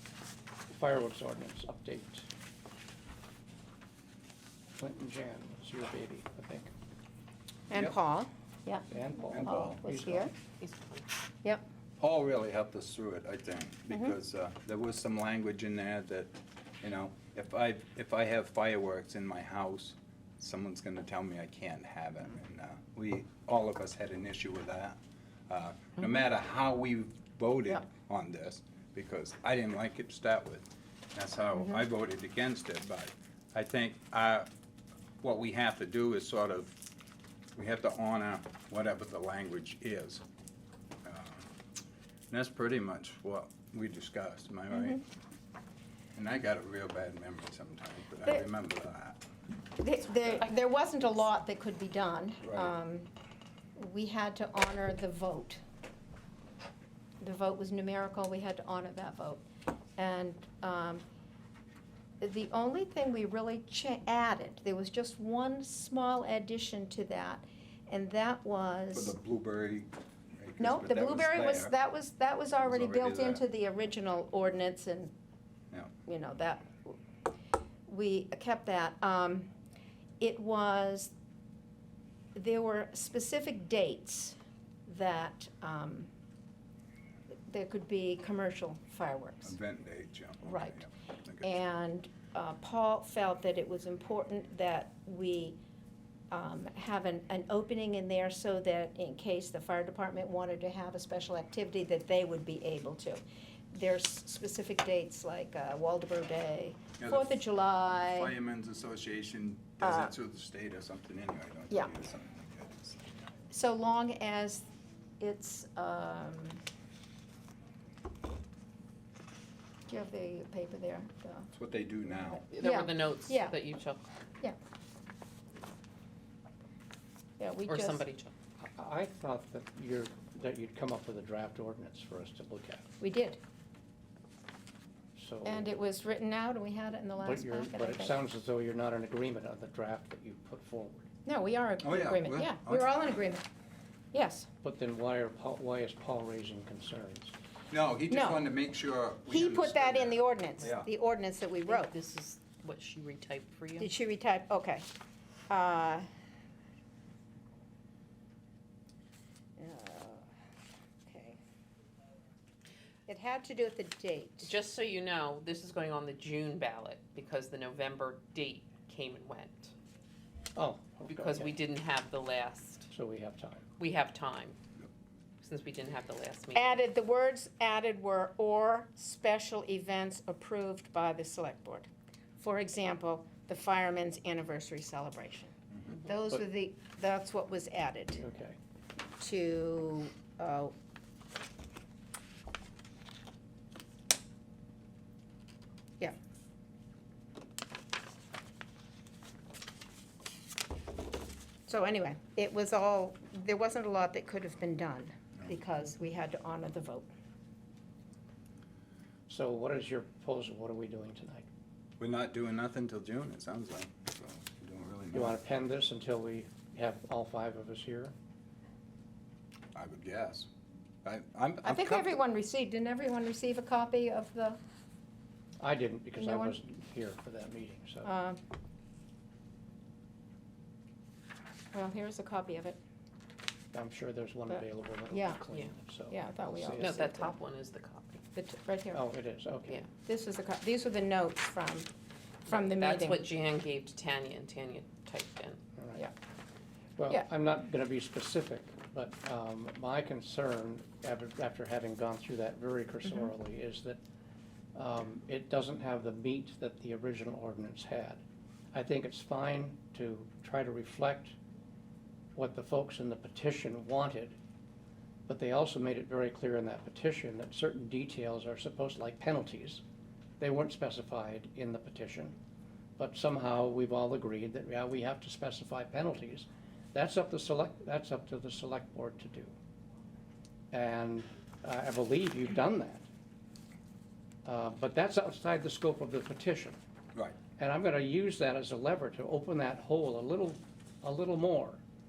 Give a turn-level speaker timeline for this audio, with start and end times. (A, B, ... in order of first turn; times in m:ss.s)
0:00.7-0:02.3 A
0:04.8-0:06.7 A
0:07.7-0:10.3 B
0:08.9-0:10.3 A
0:09.3-0:09.8 C
0:10.6-0:11.0 D
0:12.0-0:34.5 C
0:31.6-0:31.8 B
0:35.2-0:36.7 C
0:37.5-0:40.2 C
0:41.0-0:41.5 C
0:42.3-0:45.0 C
0:44.7-0:45.0 B
0:46.1-0:49.2 C
0:49.8-0:53.1 B
0:52.4-0:52.7 C
0:53.8-0:55.6 B
0:57.2-0:59.4 B
1:00.0-1:01.0 B
1:02.2-1:09.1 B
1:08.9-1:11.7 C
1:10.6-1:15.1 B
1:12.6-1:13.4 C
1:16.0-1:17.0 B
1:17.9-1:19.5 B
1:20.2-1:21.1 B
1:22.3-1:26.1 B
1:27.5-1:29.5 B
1:29.4-1:31.5 C
1:30.4-1:30.8 B
1:31.4-1:35.6 B
1:36.3-1:48.3 B
1:47.0-1:47.3 C
1:48.1-1:53.1 C
1:49.8-1:50.1 B
1:53.5-1:54.7 B
1:55.2-1:56.6 B
1:59.9-2:01.5 B
2:01.5-2:02.4 C
2:02.5-2:04.1 D
2:02.6-2:03.6 B
2:07.4-2:08.0 B
2:07.7-2:08.3 D
2:08.6-2:12.8 A
2:13.0-2:13.4 B
2:15.1-2:15.7 A
2:15.4-2:18.2 B
2:17.2-2:21.0 A
2:21.2-2:23.4 B
2:21.8-2:23.2 C
2:24.1-2:24.5 B
2:24.6-2:27.3 A
2:27.7-2:30.9 C
2:28.1-2:28.4 B
2:29.3-2:31.9 B
2:31.6-2:33.9 D
2:33.8-2:34.9 B
2:35.5-2:36.1 B
2:39.6-2:40.2 B
2:41.0-2:41.4 B
2:43.1-2:44.5 B
2:44.4-2:49.7 D
2:50.6-2:51.5 A
2:51.1-2:52.9 D
2:52.9-2:53.7 A
2:53.8-2:54.6 D
2:55.4-2:56.8 D
2:56.5-3:08.2 B
3:08.2-3:08.6 A
3:09.2-3:10.7 B
3:21.7-3:27.1 B
3:29.3-3:31.5 A
3:32.0-3:35.4 C
3:35.1-3:38.1 A
3:39.7-3:40.5 C
3:41.0-3:42.2 C
3:41.6-3:44.6 B
3:45.6-3:48.1 A
3:46.2-3:46.6 B
3:48.0-3:48.4 B
3:51.7-3:52.8 B
3:53.7-3:57.0 A
3:54.5-3:55.4 B
3:56.1-3:57.3 B
3:56.8-3:58.2 D
3:58.3-3:59.0 B
3:58.9-3:59.8 A
4:00.0-4:01.9 B
4:02.4-4:03.2 B
4:02.4-4:05.6 D
4:05.8-4:06.1 A
4:07.0-4:14.0 A
4:13.0-4:13.3 B
4:14.7-4:21.4 A
4:22.3-4:24.4 A
4:25.3-4:29.8 A
4:30.4-4:32.4 A
4:33.0-4:39.5 A
4:40.7-4:43.0 A
4:44.4-4:46.8 A
4:47.6-4:51.8 A